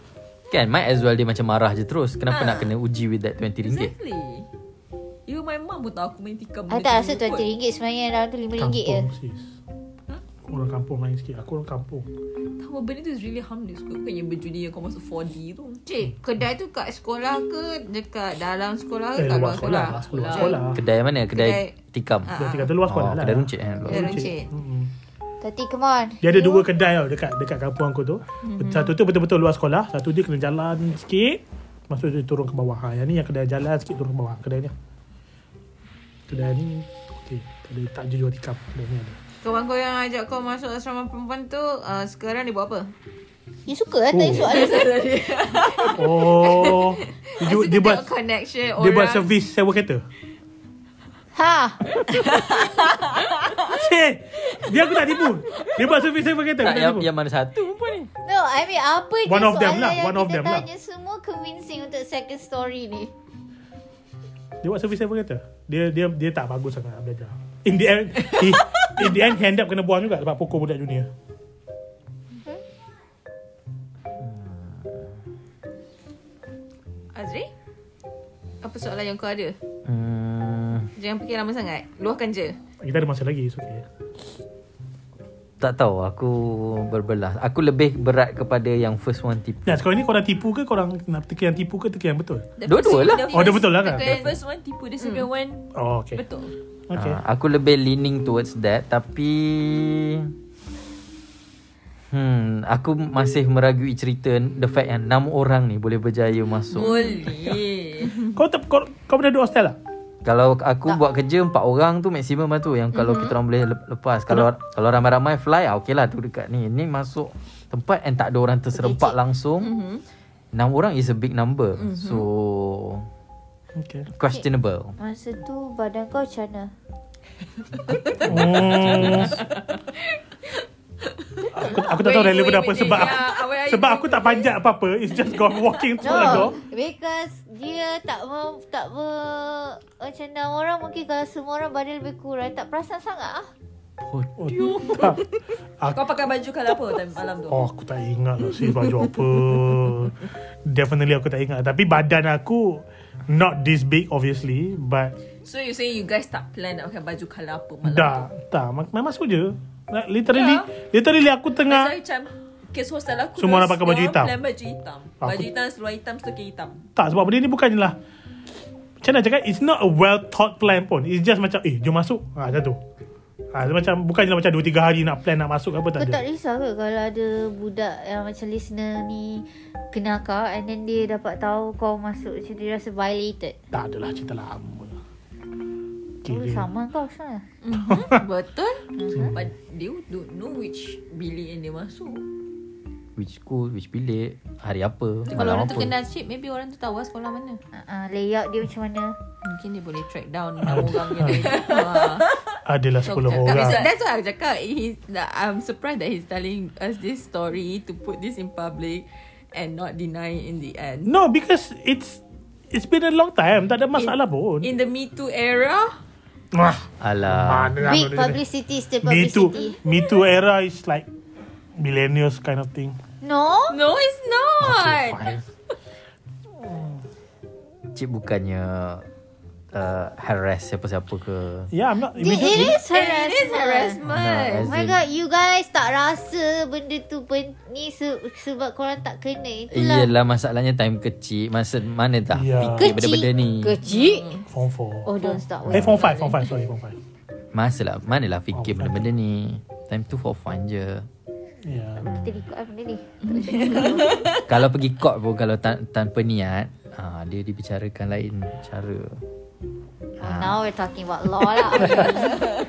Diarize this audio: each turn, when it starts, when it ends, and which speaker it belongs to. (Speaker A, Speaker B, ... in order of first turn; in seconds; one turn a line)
Speaker A: 0.5-3.9
Speaker B: 2.3-2.7
Speaker B: 3.6-4.5
Speaker B: 5.3-7.5
Speaker C: 6.7-9.1
Speaker D: 8.6-9.5
Speaker D: 10.4-12.1
Speaker B: 12.6-15.8
Speaker E: 15.8-20.6
Speaker D: 19.1-20.8
Speaker B: 19.9-20.6
Speaker A: 20.7-24.2
Speaker E: 21.3-22.7
Speaker D: 22.4-24.9
Speaker E: 23.9-24.5
Speaker C: 25.4-26.7
Speaker D: 26.2-34.7
Speaker E: 28.4-28.9
Speaker D: 36.3-39.2
Speaker E: 39.4-42.9
Speaker C: 43.7-45.0
Speaker D: 44.1-44.5
Speaker B: 44.3-46.8
Speaker D: 46.0-48.1
Speaker E: 46.4-46.8
Speaker E: 47.4-49.3
Speaker D: 48.8-50.0
Speaker C: 51.3-52.0
Speaker B: 52.3-53.6
Speaker D: 53.6-57.1
Speaker A: 56.6-58.1
Speaker C: 58.2-63.1
Speaker D: 59.2-60.6
Speaker D: 64.6-71.1
Speaker A: 74.2-75.0
Speaker E: 77.1-77.5
Speaker E: 78.6-79.6
Speaker A: 79.8-80.9
Speaker E: 81.0-82.6
Speaker D: 82.8-83.8
Speaker A: 85.6-89.8
Speaker D: 89.7-92.5
Speaker B: 92.6-96.5
Speaker A: 92.7-93.4
Speaker E: 93.0-94.2
Speaker D: 93.3-94.3
Speaker E: 95.0-95.3
Speaker D: 95.7-96.2
Speaker D: 96.9-97.2
Speaker A: 96.9-100.3
Speaker A: 102.1-107.1
Speaker B: 106.7-108.2
Speaker E: 106.7-107.2
Speaker D: 108.1-109.8
Speaker A: 110.2-119.8
Speaker E: 112.9-113.3
Speaker C: 118.7-119.2
Speaker E: 119.6-120.0
Speaker A: 120.5-123.1
Speaker E: 121.8-122.2
Speaker D: 123.8-124.1
Speaker A: 124.1-124.9
Speaker C: 125.0-126.7
Speaker D: 128.2-129.4
Speaker A: 128.2-129.4
Speaker D: 131.5-136.6
Speaker B: 131.6-134.5
Speaker E: 131.9-133.6
Speaker B: 135.2-136.4
Speaker C: 136.0-143.5
Speaker A: 144.0-144.3
Speaker D: 144.4-145.2
Speaker B: 145.9-147.7
Speaker D: 147.5-155.1
Speaker B: 155.4-158.3
Speaker D: 157.8-161.9
Speaker B: 160.3-160.7
Speaker B: 161.7-166.8
Speaker D: 163.4-164.3
Speaker D: 165.2-165.5
Speaker D: 166.9-168.0
Speaker D: 169.0-172.8
Speaker D: 173.5-176.2
Speaker C: 175.9-183.6
Speaker D: 183.7-184.9
Speaker D: 186.2-186.7
Speaker C: 186.2-187.4
Speaker E: 187.6-188.8
Speaker D: 187.9-188.2
Speaker C: 189.0-189.3
Speaker B: 189.3-192.2
Speaker A: 193.2-195.9
Speaker E: 195.3-197.6
Speaker C: 197.7-199.2
Speaker E: 199.4-202.3
Speaker D: 200.6-201.5
Speaker B: 201.2-202.4
Speaker D: 202.6-203.8
Speaker E: 203.1-211.1
Speaker B: 203.1-203.9
Speaker D: 211.1-214.7
Speaker E: 213.9-216.0
Speaker D: 216.5-218.4
Speaker A: 217.0-217.8
Speaker C: 217.8-219.8
Speaker D: 219.0-221.1
Speaker D: 221.8-223.0
Speaker C: 223.2-223.8
Speaker E: 223.7-225.2
Speaker D: 224.6-225.4
Speaker B: 224.7-224.9
Speaker D: 226.6-227.0
Speaker A: 227.9-229.1
Speaker A: 229.7-231.7
Speaker D: 231.7-232.8
Speaker C: 232.1-234.0
Speaker E: 232.9-234.6
Speaker B: 233.0-233.9
Speaker A: 234.0-235.0
Speaker C: 234.6-240.1
Speaker A: 239.7-243.8
Speaker D: 242.3-242.9
Speaker C: 242.6-244.4
Speaker E: 243.9-244.4
Speaker D: 244.5-245.1
Speaker C: 245.0-246.1
Speaker D: 245.7-247.0
Speaker E: 246.0-246.3
Speaker A: 247.5-251.1
Speaker D: 248.5-249.1
Speaker D: 251.6-252.1
Speaker C: 252.0-254.3
Speaker E: 253.2-254.2
Speaker A: 254.5-259.2
Speaker A: 260.2-260.6
Speaker C: 260.2-262.4
Speaker A: 261.8-262.1